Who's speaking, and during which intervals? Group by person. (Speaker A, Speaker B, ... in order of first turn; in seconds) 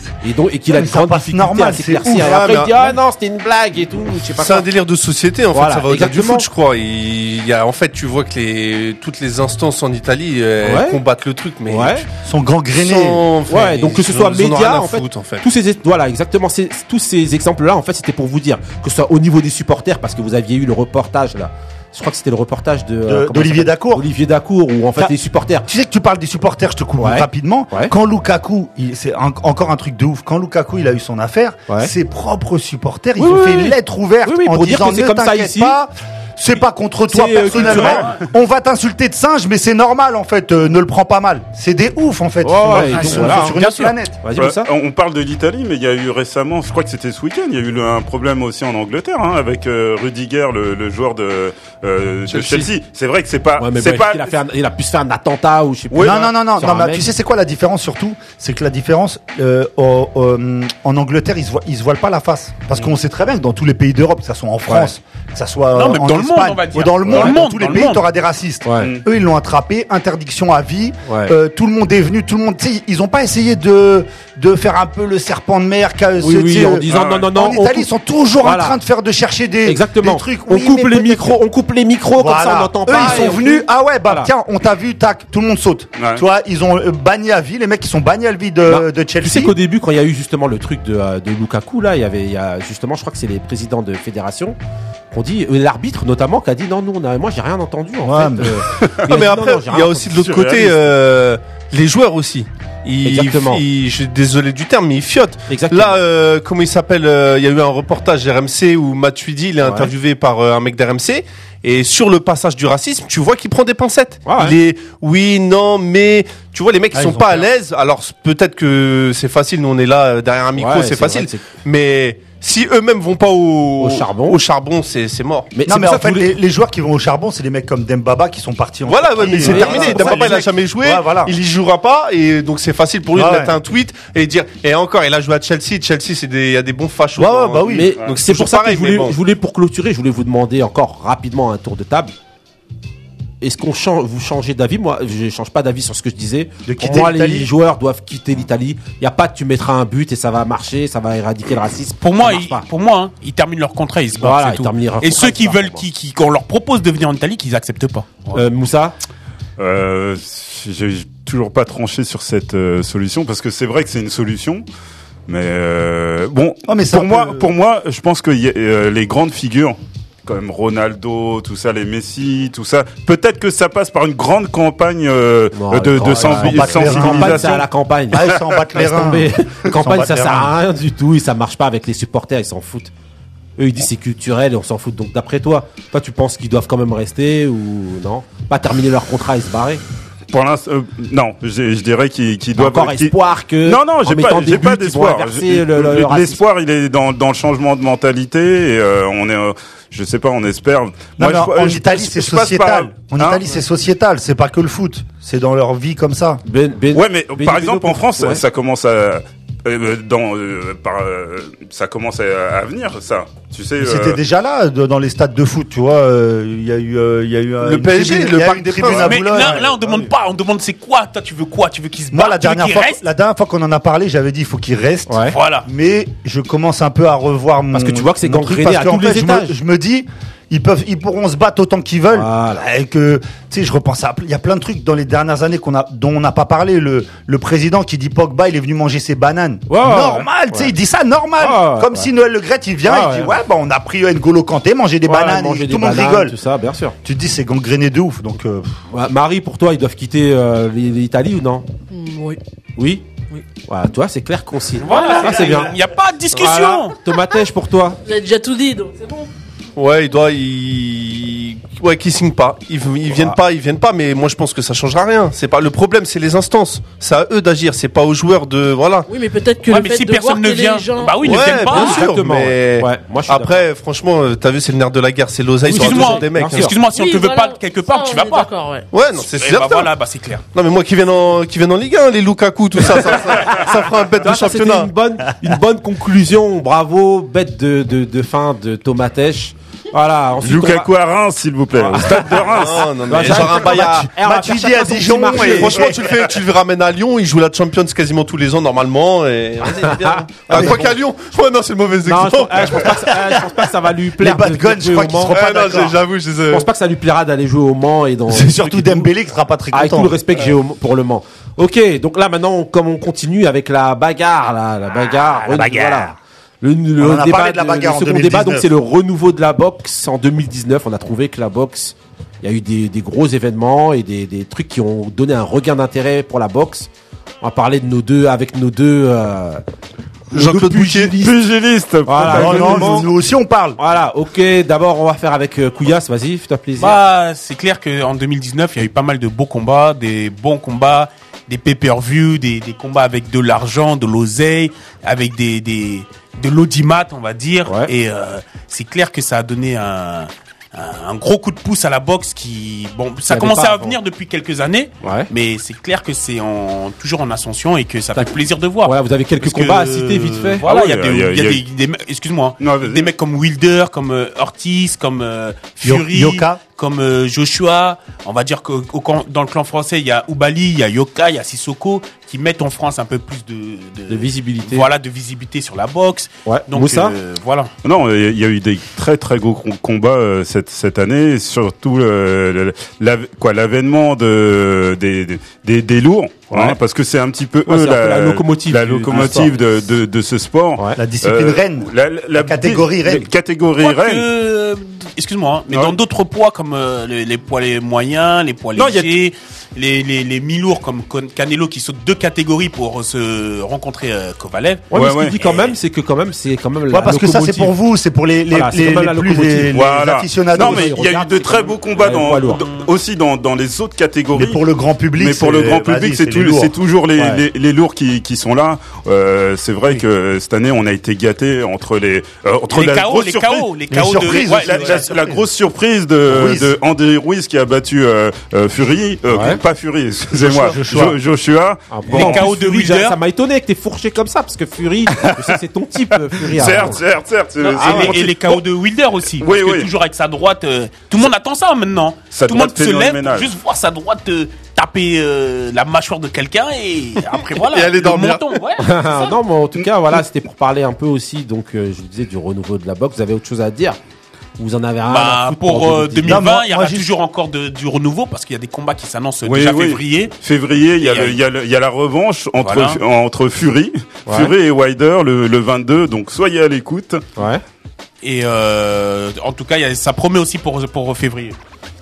Speaker A: 0.2-4.7, 5.5-6.5, 10.6-11.0, 11.7-12.0, 13.5-25.7, 27.0-27.9, 33.2-35.8, 37.1-38.0, 42.4-44.7, 52.3-52.7, 53.6-57.1, 68.6-68.9, 71.0-71.3, 76.2-77.9, 78.4-78.8, 79.6-84.3, 88.7-94.6, 95.1-100.1, 103.0-103.6, 105.5-106.0, 109.6-109.9, 114.2-114.5, 120.5-121.5, 123.8-124.4, 125.5-126.3, 129.2-130.5, 137.7-142.1, 143.4-152.7, 154.2-155.8, 158.3-158.9, 175.5-182.9, 183.6-189.8, 192.5-196.4, 206.4-208.4, 225.1-225.3, 227.7-229.6, 232.1-232.6, 239.7-240.7, 241.4-242.1, 242.8-243.3, 245.1-246.9, 248.9-251.7, 252.8-253.1, 253.7-255.7, 256.3-258.0, 263.1-263.4, 271.6-273.6, 275.6-276.8, 284.2-290.9, 291.8-295.9, 299.7-300.9, 302.0-305.4, 306.5-309.1, 309.7-326.9, 327.4-329.6, 330.3-331.3, 332.1-333.1, 333.8-337.0, 347.6-347.9, 353.3-354.0, 355.0-355.3, 358.1-360.6, 374.1-374.9, 376.4-377.1, 386.5-386.8, 387.6-389.5, 404.9-407.7, 408.5-409.8, 410.5-412.6, 417.2-417.4, 429.3-429.6, 431.9-437.0, 437.8-438.2, 448.8-454.0, 454.6-456.4, 464.2-464.5, 467.4-467.6
Speaker B: 0.7-2.4, 12.2-13.2, 23.0-24.0, 25.7-44.2, 56.0-81.4, 82.2-89.5, 98.0-98.6, 116.9-117.5, 125.7-131.3, 133.1-133.6, 137.2-137.9, 146.6-147.5, 166.7-167.5, 176.2-177.5, 178.1-180.5, 201.2-206.4, 213.8-219.8, 222.1-246.3, 247.0-248.8, 293.4-296.0, 300.5-300.8, 303.3-303.5, 304.2-306.0, 308.3-310.2, 315.1-316.1, 317.0-318.7, 332.3-333.8, 365.8-366.6, 391.0-393.3, 406.9-411.0, 414.3-416.7, 423.9-425.4, 426.3-426.7, 430.3-431.2, 456.3-457.1
Speaker C: 2.2-3.0, 4.3-12.1, 12.7-15.4, 99.0-125.5, 128.8-139.2, 217.6-219.5, 259.8-269.1, 271.2-276.7, 278.9-279.9, 280.5-284.9, 292.4-294.1, 295.3-302.9, 305.3-306.7, 330.3-331.1, 447.6-448.5
Speaker D: 37.7-37.9, 44.4-54.3, 55.9-56.2, 76.9-77.3, 86.0-86.2, 100.2-100.8, 159.6-164.6, 165.3-177.7, 190.3-203.4, 206.9-214.2, 290.4-292.9, 331.1-333.0, 360.6-361.6, 362.6-363.1, 377.8-394.3, 398.8-399.1, 404.9-405.4, 409.7-414.6, 415.2-423.7, 424.2-432.5, 436.3-438.6, 439.4-439.9, 442.3-443.5, 459.4-467.2
Speaker E: 65.7-68.0, 152.0-158.1, 218.9-223.0, 225.3-225.7, 254.8-256.9, 269.7-272.0, 275.7-278.5, 279.2-280.4, 336.8-377.7, 393.8-404.9, 405.4-405.7, 412.4-412.9, 422.7-425.2, 432.1-433.1, 437.6-449.4, 455.1-460.3, 461.0-461.4, 462.6-463.0, 468.2-471.6
Speaker F: 251.9-252.4, 258.0-259.3, 269.1-271.5, 276.9-278.9